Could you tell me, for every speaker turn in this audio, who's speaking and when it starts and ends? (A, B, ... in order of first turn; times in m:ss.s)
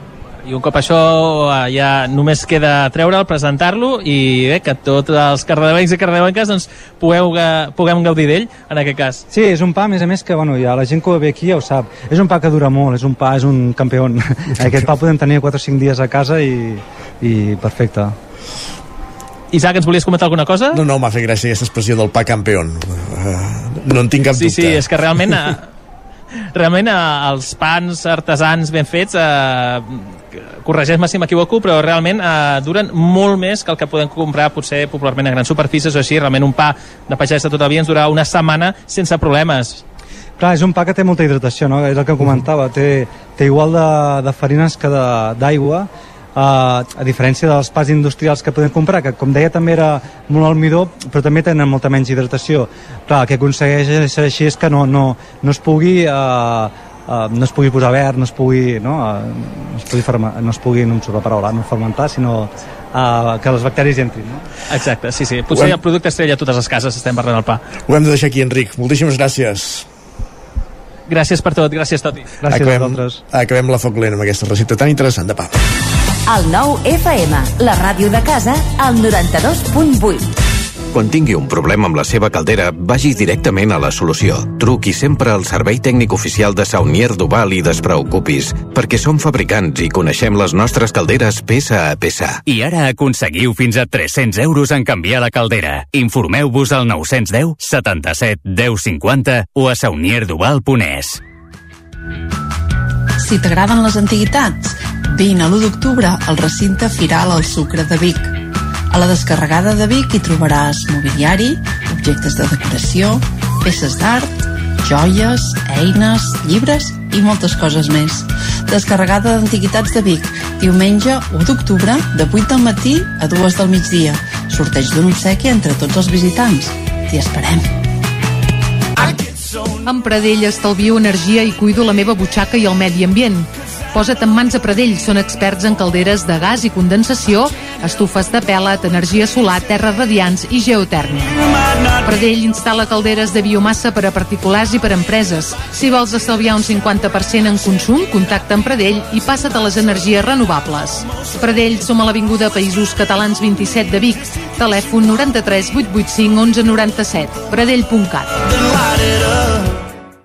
0:00.4-0:09.2 A
0:09.3-0:18.2 B
0:19.5-0:20.8 A
0:20.7-0:24.8 C
0:24.4-0:25.7 A
0:26.5-0:39.8 A
0:40.4-1:04.4 B
1:04.7-1:07.6 A
1:05.5-1:05.8 C
1:07.9-1:09.9 C
1:11.1-1:12.4 A
1:12.4-1:13.2 B
1:12.5-1:15.5 C
1:16.3-1:20.3 D
1:20.9-1:32.4 E
1:32.6-1:41.1 F
1:43.2-1:48.4 G
1:48.9-2:07.7 G
2:09.8-2:21.4 H
2:22.0-2:38.4 H